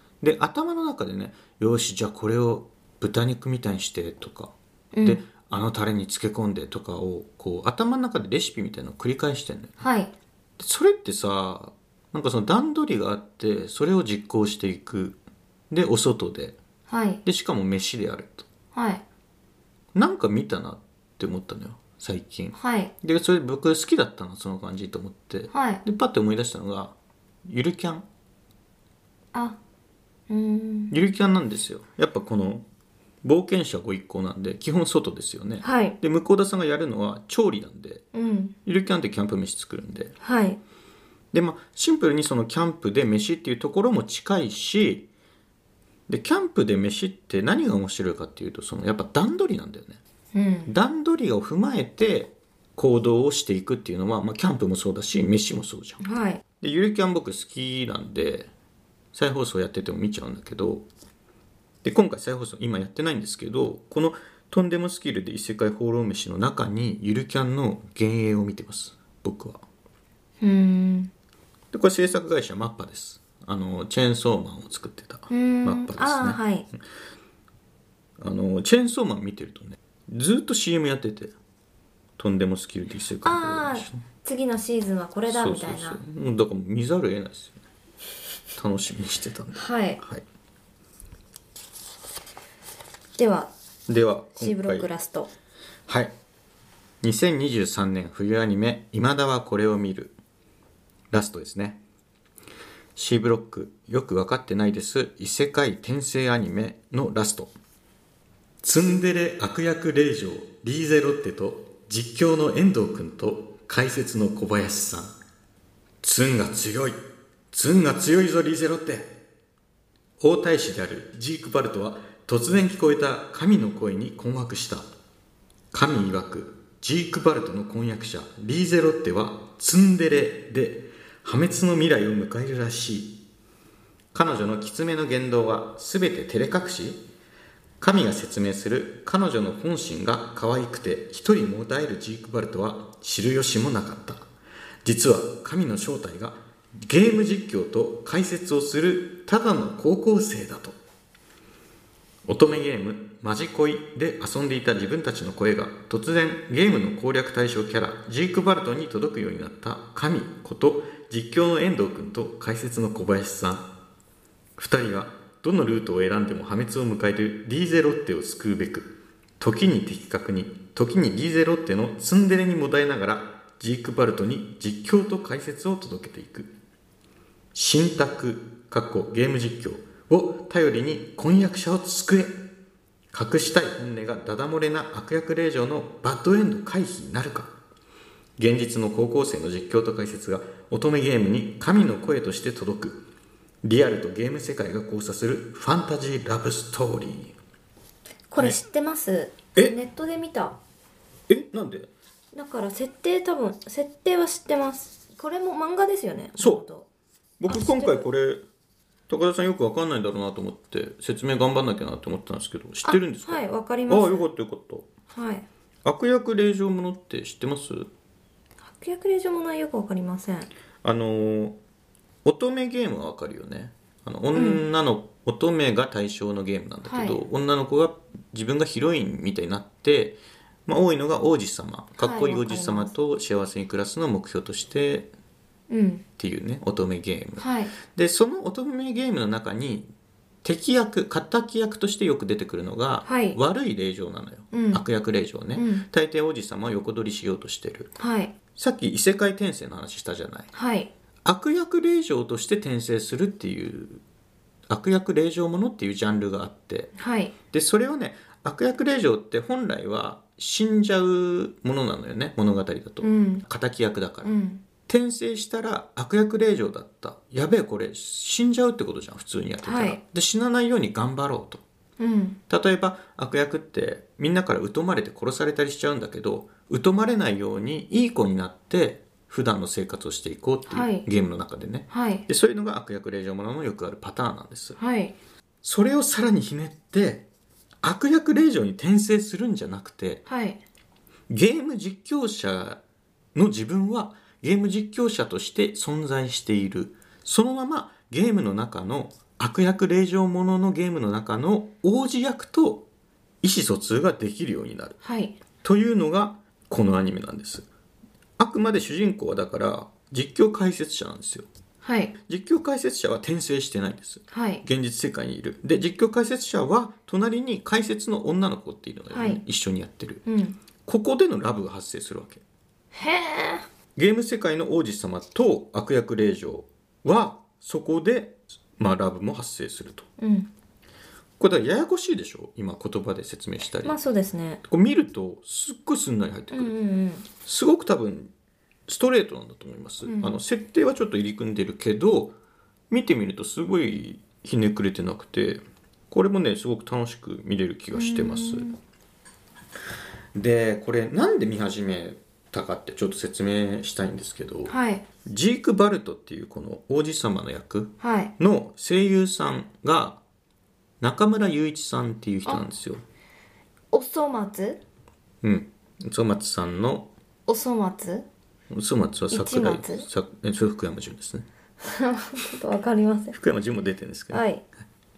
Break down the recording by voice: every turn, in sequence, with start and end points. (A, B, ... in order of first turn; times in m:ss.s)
0:00.2-0:09.8 A
0:04.9-0:05.2 B
0:09.8-0:10.1 B
0:10.6-0:15.2 A
0:15.7-0:16.6 A
0:16.9-0:17.2 B
0:17.2-0:18.5 A
0:18.7-0:19.0 B
0:19.9-0:27.0 A
0:22.5-0:22.9 B
0:25.5-0:25.8 B
0:27.5-0:28.0 A
0:29.3-0:29.6 B
0:30.3-0:30.9 B
0:30.9-0:32.6 A
0:33.2-0:38.0 A
0:35.6-0:36.0 B
0:38.1-0:38.5 B
0:38.6-0:40.1 A
0:40.2-0:40.6 B
0:41.3-0:45.1 A
0:46.1-0:50.0 A
0:50.3-0:50.7 B
0:50.6-0:56.0 A
0:56.0-0:56.4 B
0:56.6-0:58.5 A
0:59.1-1:00.9 A
1:01.8-1:09.6 A
1:10.4-1:11.1 B
1:11.7-1:16.4 A
1:15.3-1:16.7 B
1:18.2-1:21.3 A
1:22.2-1:24.0 A
1:23.2-1:26.0 B
1:25.3-1:27.6 A
1:28.6-1:30.2 A
1:29.5-1:30.0 B
1:33.2-1:33.5 B
1:33.9-1:34.9 A
1:34.4-1:35.3 B
1:35.9-1:36.1 A
1:37.0-1:40.2 A
1:41.1-1:41.8 A
1:43.0-1:47.5 A
1:48.6-1:55.1 A
1:56.0-1:57.0 A
1:57.5-1:59.2 A
2:00.2-2:04.9 A
2:05.7-2:13.2 A
2:14.1-2:17.1 A
2:17.8-2:24.2 A
2:24.8-2:30.8 A
2:32.2-2:43.7 A
2:44.6-2:56.5 A
2:57.5-3:02.4 A
3:03.1-3:07.5 A
3:08.4-3:13.0 A
3:13.6-3:17.4 A
3:18.3-3:20.6 B
3:21.3-3:21.9 A
3:22.3-3:26.9 B
3:26.4-3:26.6 A
3:27.4-3:28.4 A
3:27.5-3:28.0 B
3:29.1-3:34.9 A
3:32.8-3:34.3 B
3:35.1-3:35.4 B
3:35.8-3:37.9 A
3:38.6-3:40.5 B
3:40.8-3:41.6 A
3:42.2-3:55.1 A
3:44.3-3:44.6 B
3:46.8-3:47.2 B
3:52.0-3:52.9 B
3:55.7-3:56.0 B
3:56.2-3:59.9 A
3:57.4-3:57.7 B
4:00.4-4:07.9 A
4:03.0-4:03.4 B
4:04.5-4:04.8 B
4:05.5-4:05.8 B
4:08.0-4:08.3 B
4:08.6-4:10.5 A
4:10.5-4:10.9 B
4:11.2-4:14.0 A
4:14.7-4:16.9 A
4:17.0-4:17.3 B
4:17.5-4:24.3 A
4:23.0-4:23.4 B
4:24.2-4:24.6 B
4:24.8-4:31.6 A
4:29.6-4:30.0 B
4:32.0-4:32.4 B
4:32.5-4:44.8 A
4:40.7-4:41.0 B
4:41.9-4:42.2 B
4:44.8-4:45.1 B
4:45.6-4:47.2 A
4:47.8-4:50.2 A
4:50.2-4:50.6 B
4:51.3-4:52.8 A
4:53.3-5:02.8 A
5:03.4-5:05.0 A
5:05.0-5:05.4 B
5:05.6-5:07.7 A
5:08.4-5:11.5 A
5:11.8-5:12.1 B
5:12.3-5:20.2 A
5:14.3-5:14.6 B
5:19.1-5:19.4 B
5:20.2-5:20.6 B
5:20.8-5:22.4 A
5:22.9-5:23.6 B
5:24.0-5:30.1 A
5:30.2-5:30.5 B
5:31.4-5:34.0 A
5:33.8-5:34.6 B
5:34.6-5:36.7 A
5:36.5-5:37.2 B
5:37.3-5:38.3 A
5:38.9-5:42.3 A
5:40.0-5:40.4 B
5:42.9-5:48.7 A
5:47.9-5:48.8 B
5:50.3-6:00.2 A
5:54.7-5:55.0 B
5:58.0-5:58.3 B
6:01.0-6:03.0 A
6:03.9-6:04.8 B
6:05.4-6:07.1 A
6:07.5-6:08.2 B
6:08.7-6:11.4 A
6:09.3-6:10.1 B
6:11.8-6:13.4 B
6:13.3-6:14.4 A
6:14.3-6:14.6 B